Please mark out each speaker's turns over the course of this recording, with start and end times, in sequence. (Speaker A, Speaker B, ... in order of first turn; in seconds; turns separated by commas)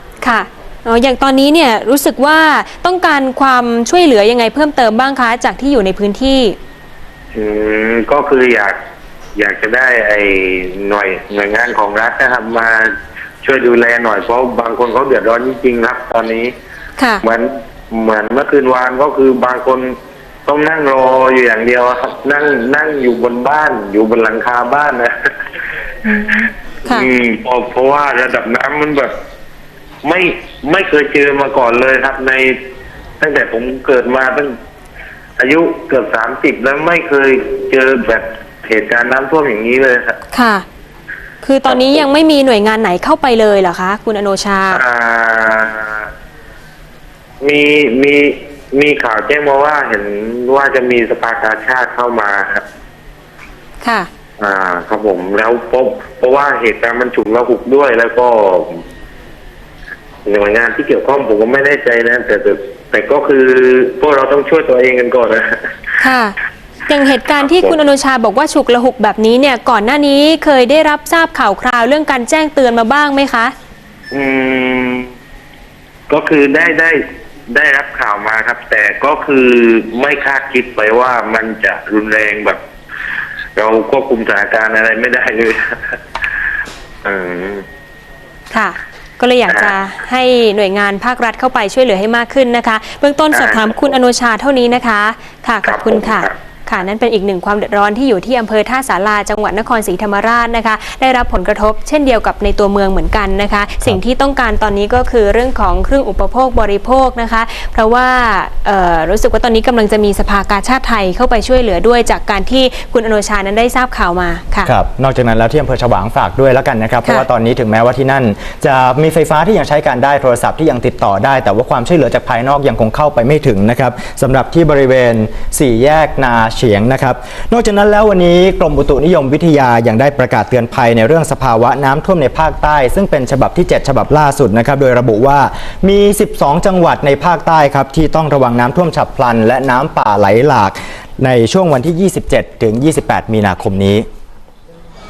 Speaker A: 0.2-6.6, Speaker B: 7.3-8.8, Speaker B: 9.4-16.5, Speaker A: 17.0-17.2, Speaker B: 17.2-19.9, Speaker B: 20.5-25.1, Speaker A: 26.1-27.1, Speaker B: 26.9-29.1, Speaker B: 30.0-32.6, Speaker B: 33.2-34.5, Speaker B: 35.4-40.2, Speaker A: 40.3-40.6, Speaker A: 41.4-44.8, Speaker B: 41.7-42.0, Speaker B: 44.7-46.0, Speaker B: 47.4-52.6, Speaker A: 53.8-54.1, Speaker B: 54.4-58.8, Speaker B: 60.3-65.5, Speaker A: 66.0-66.3, Speaker A: 66.9-73.5, Speaker B: 67.5-67.7, Speaker B: 74.1-75.1, Speaker B: 76.1-82.6, Speaker B: 83.6-85.8, Speaker B: 87.0-87.7, Speaker A: 88.5-114.7, Speaker B: 93.3-93.9, Speaker B: 95.6-96.3, Speaker C: 114.7-144.1